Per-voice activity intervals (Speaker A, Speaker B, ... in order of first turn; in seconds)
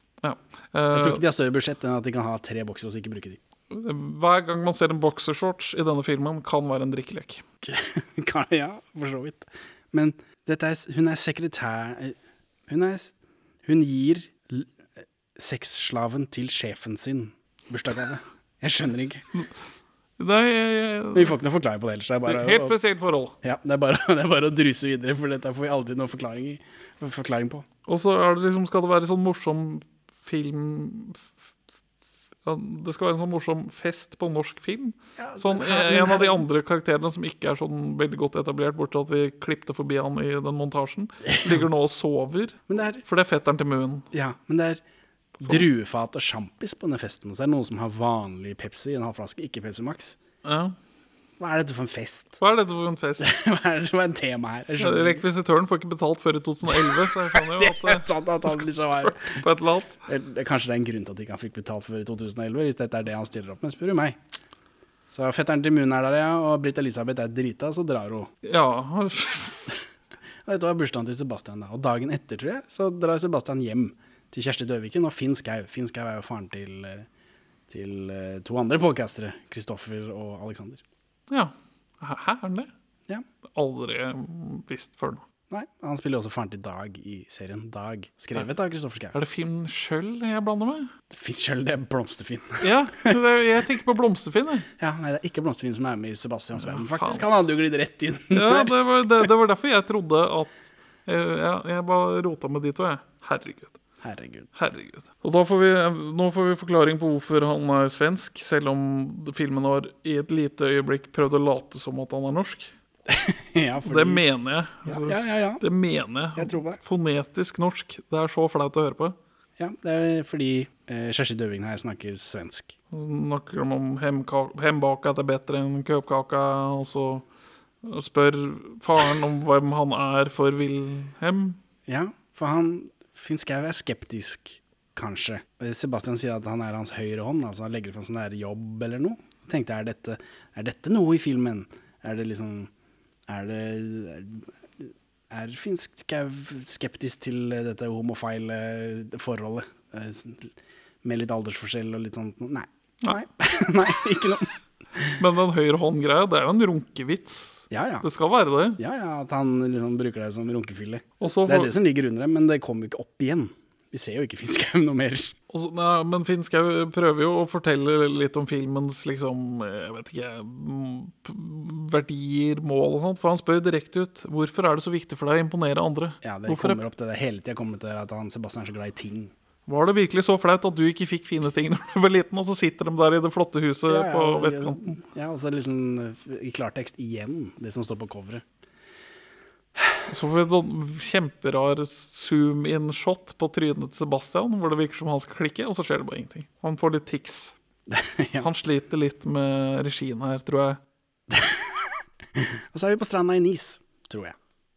Speaker A: 0.2-1.2, 3.7-7.4, 20.2-21.4, 22.2-23.3, 27.9-31.3, 32.4-44.1, 50.4-50.7, 52.4-53.3, 54.8-59.9, 68.4-69.6, 81.3-82.7, 83.5-85.2, 89.1-90.9, 92.6-94.7, 96.5-97.5, 98.3-103.8, 104.5-112.7, 113.8-119.2, 122.9-127.2, 127.8-131.6, 155.2-158.8, 161.2-161.7, 165.5-176.8, 179.7-184.9, 190.1-197.5, 198.4-200.8
Speaker B: 0.9-3.4, 7.6-12.2, 12.7-13.1, 13.6-14.8, 15.3-19.3, 21.1-22.7, 23.4-27.6, 35.2-36.4, 41.2-41.5, 42.7-43.0, 44.1-44.8, 45.4-50.2, 51.4-52.4, 53.2-55.2, 56.7-59.4, 60.0-64.2, 65.1-68.3, 70.5-77.1, 77.7-80.8, 85.5-89.1, 91.1-93.2, 94.8-98.8, 104.0-104.5, 113.1-114.2, 114.8-115.6, 116.3-116.8, 119.6-122.7, 131.9-142.7, 143.3-155.2, 157.7-158.1, 158.8-165.3, 176.2-179.3, 183.9-188.4, 197.9-198.5, 201.3-204.3